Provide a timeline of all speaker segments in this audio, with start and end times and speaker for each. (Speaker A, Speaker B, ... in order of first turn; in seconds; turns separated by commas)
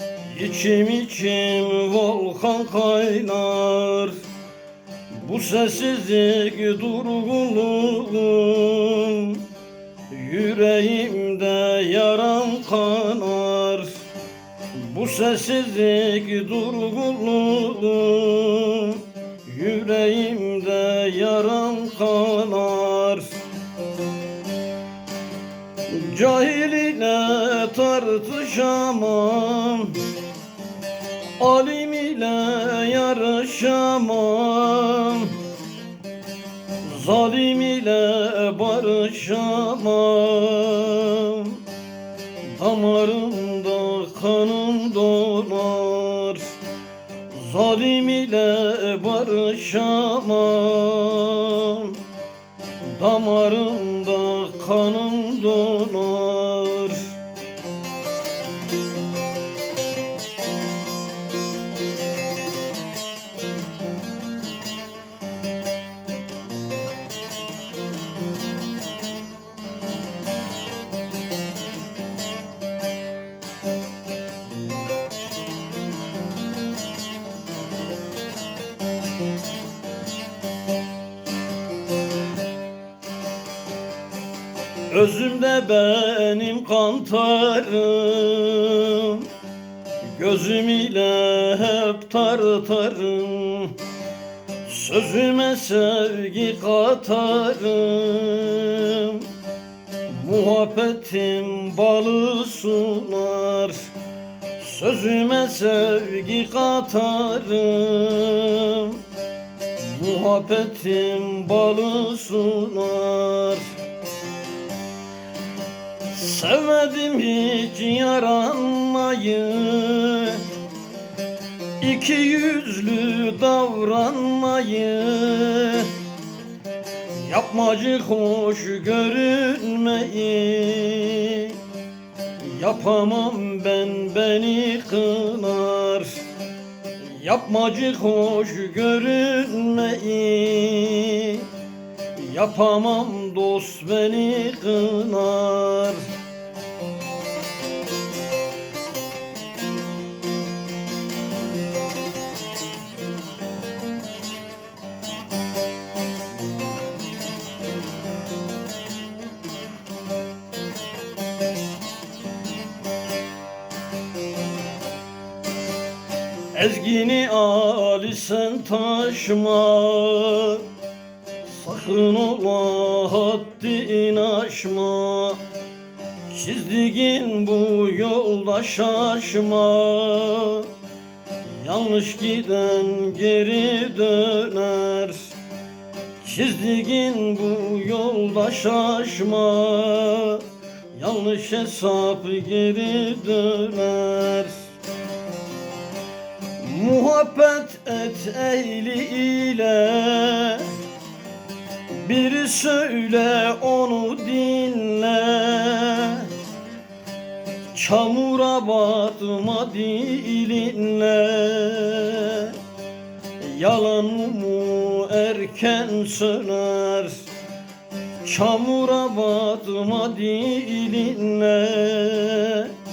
Speaker A: 0.3-4.2, Speaker A: 5.1-9.5, Speaker A: 10.1-14.1, Speaker A: 14.7-23.4, Speaker A: 25.9-30.1, Speaker A: 31.4-35.4, Speaker A: 36.8-41.6, Speaker A: 42.4-46.6, Speaker A: 47.3-52.0, Speaker A: 52.8-57.2, Speaker A: 84.9-89.3, Speaker A: 90.0-93.8, Speaker A: 94.7-99.3, Speaker A: 100.1-103.9, Speaker A: 104.6-109.0, Speaker A: 109.8-113.7, Speaker A: 116.1-120.5, Speaker A: 121.8-126.0, Speaker A: 127.1-131.6, Speaker A: 132.4-136.3, Speaker A: 137.0-141.5, Speaker A: 142.1-146.1, Speaker A: 166.5-170.7, Speaker A: 171.4-175.4, Speaker A: 176.3-180.7, Speaker A: 181.5-185.4, Speaker A: 186.2-194.7, Speaker A: 196.6-200.8, Speaker A: 201.9-206.3, Speaker A: 207.7-212.6, Speaker A: 213.4-217.3, Speaker A: 218.2-222.8